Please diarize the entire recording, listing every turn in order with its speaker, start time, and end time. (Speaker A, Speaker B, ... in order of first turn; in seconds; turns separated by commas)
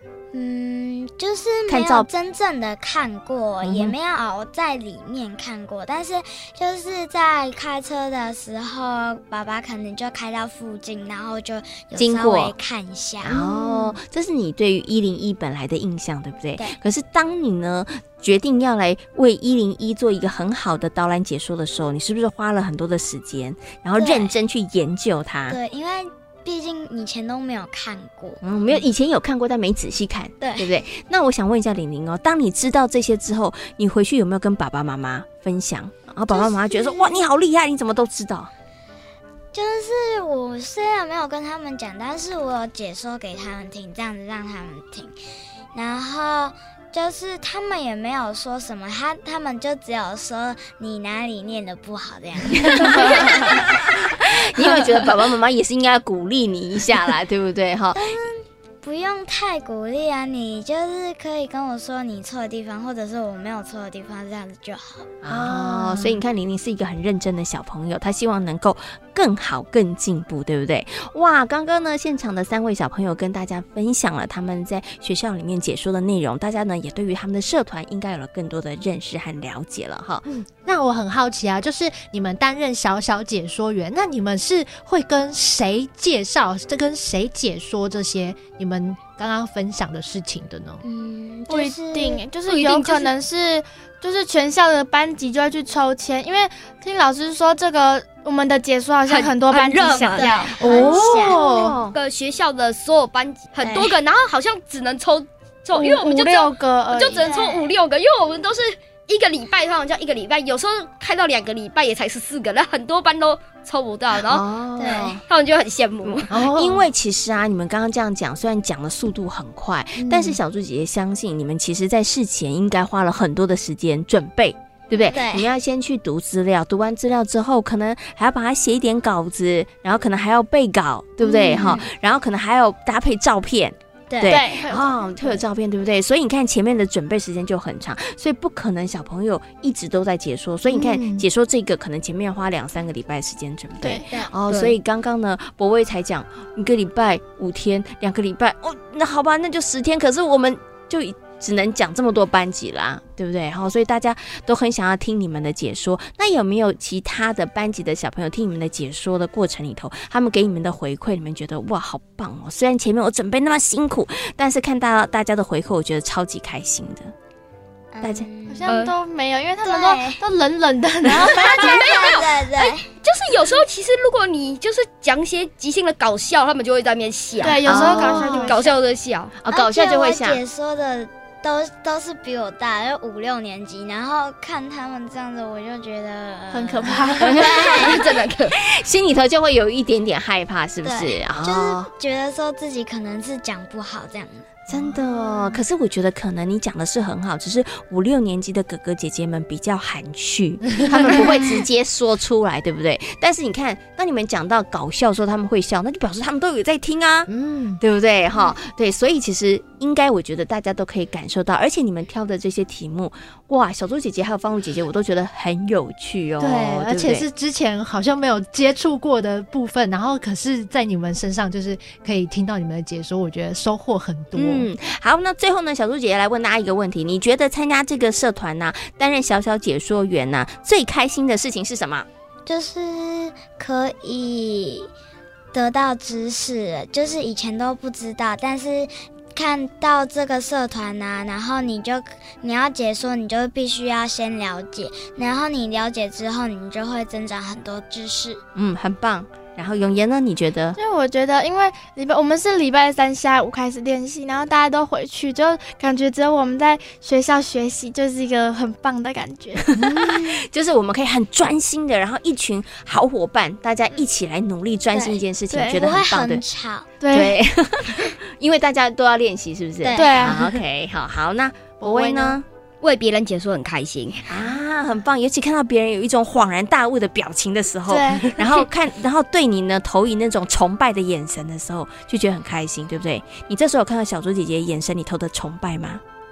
Speaker A: 0.3-13.9, Speaker B: 1.7-2.1, Speaker B: 3.6-3.9, Speaker B: 11.9-12.5, Speaker B: 13.2-25.6, Speaker A: 24.0-24.3, Speaker A: 25.5-28.4, Speaker B: 28.4-38.5, Speaker A: 30.4-30.8, Speaker A: 36.3-37.2, Speaker A: 39.5-45.1, Speaker A: 45.7-53.7, Speaker B: 52.8-58.0, Speaker A: 57.9-65.1, Speaker B: 65.2-80.2, Speaker C: 65.3-66.2, Speaker C: 80.3-90.8, Speaker A: 90.8-92.2, Speaker D: 91.5-100.5, Speaker E: 92.5-93.1, Speaker E: 99.1-100.9, Speaker A: 100.1-101.4, Speaker C: 100.4-101.8, Speaker B: 101.2-102.0, Speaker E: 101.9-116.3, Speaker A: 103.6-103.9, Speaker D: 105.7-107.3, Speaker A: 107.1-107.7, Speaker B: 114.1-115.2, Speaker A: 114.8-115.2, Speaker B: 116.0-167.1, Speaker C: 116.3-116.8, Speaker C: 120.0-120.4, Speaker A: 125.0-125.5, Speaker A: 131.2-131.9, Speaker A: 134.1-134.4, Speaker D: 134.2-135.4, Speaker C: 140.7-141.2, Speaker D: 143.8-144.1, Speaker E: 144.5-144.8, Speaker A: 167.9-168.7, Speaker B: 168.0-168.3, Speaker D: 168.5-171.4, Speaker E: 168.7-168.9, Speaker A: 169.6-170.2, Speaker A: 171.2-172.8, Speaker E: 171.2-177.7, Speaker D: 177.4-178.7, Speaker B: 177.6-178.3, Speaker C: 177.7-178.3, Speaker E: 178.3-179.3, Speaker B: 179.4-180.4, Speaker A: 179.5-188.0, Speaker D: 186.5-187.7, Speaker E: 187.2-188.5, Speaker B: 188.6-191.9, Speaker A: 190.8-194.5, Speaker B: 194.7-207.3, Speaker C: 207.3-207.8, Speaker B: 207.8-217.2, Speaker C: 216.4-224.7, Speaker B: 224.3-232.1, Speaker A: 232.4-234.9, Speaker A: 235.5-248.4, Speaker B: 248.6-250.8, Speaker D: 250.8-259.6, Speaker B: 259.8-266.4, Speaker C: 259.9-260.3, Speaker A: 264.9-265.2, Speaker D: 265.5-265.8, Speaker A: 265.8-266.9, Speaker D: 267.0-267.4, Speaker B: 267.1-272.4, Speaker A: 269.8-270.4, Speaker D: 269.9-270.5, Speaker D: 271.8-272.4, Speaker E: 272.8-274.2, Speaker B: 274.3-286.0, Speaker D: 277.9-278.6